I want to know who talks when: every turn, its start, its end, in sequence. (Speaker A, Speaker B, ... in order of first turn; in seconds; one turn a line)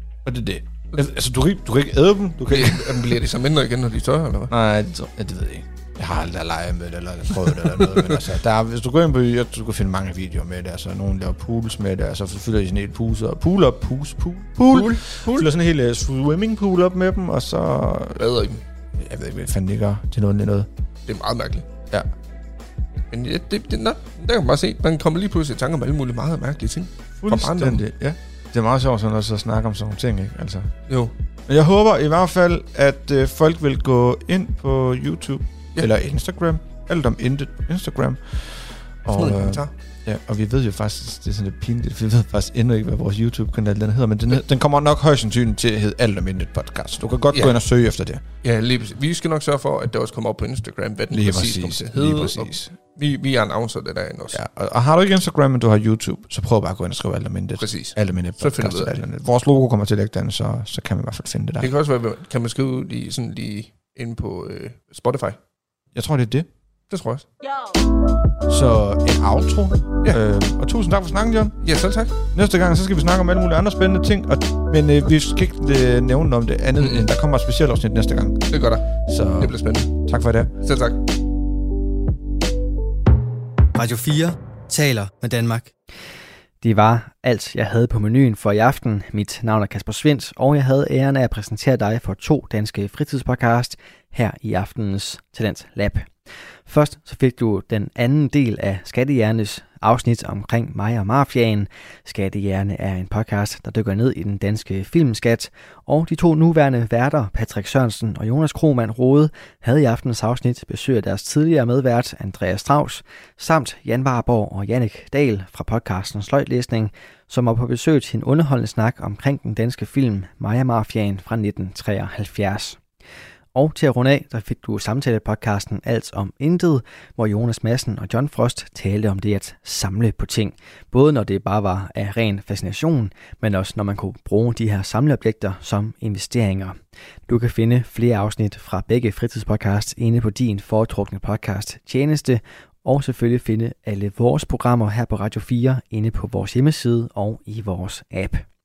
Speaker A: 0.2-3.2
Speaker B: 2.5-4.5
Speaker A: 4.5-18.2
Speaker B: 7.5-8.2
Speaker B: 14.6-15.5
Speaker B: 18.1-18.6
Speaker A: 19.0-20.7
Speaker B: 21.1-21.7
Speaker B: 23.1-27.8
Speaker A: 27.1-30.7
Speaker B: 30.9-31.1
Speaker A: 31.5-48.2
Speaker B: 39.1-39.7
Speaker B: 47.3-47.6
Speaker B: 48.4-54.4
Speaker A: 51.1-52.8
Speaker A: 54.3-61.7
Speaker B: 57.6-59.0
Speaker B: 61.6-65.4
Speaker A: 65.9-66.5
Speaker B: 66.9-67.3
Speaker A: 68.5-71.6
Speaker B: 71.6-72.2
Speaker A: 72.3-78.4
Speaker B: 76.8-77.1
Speaker B: 78.5-80.0
Speaker A: 78.9-80.5
Speaker B: 80.6-81.0
Speaker C: 83.8-85.7
Speaker D: 86.6-96.1
Speaker D: 96.7-122.8
Speaker D: 123.5-136.8
Speaker D: 137.3-148.5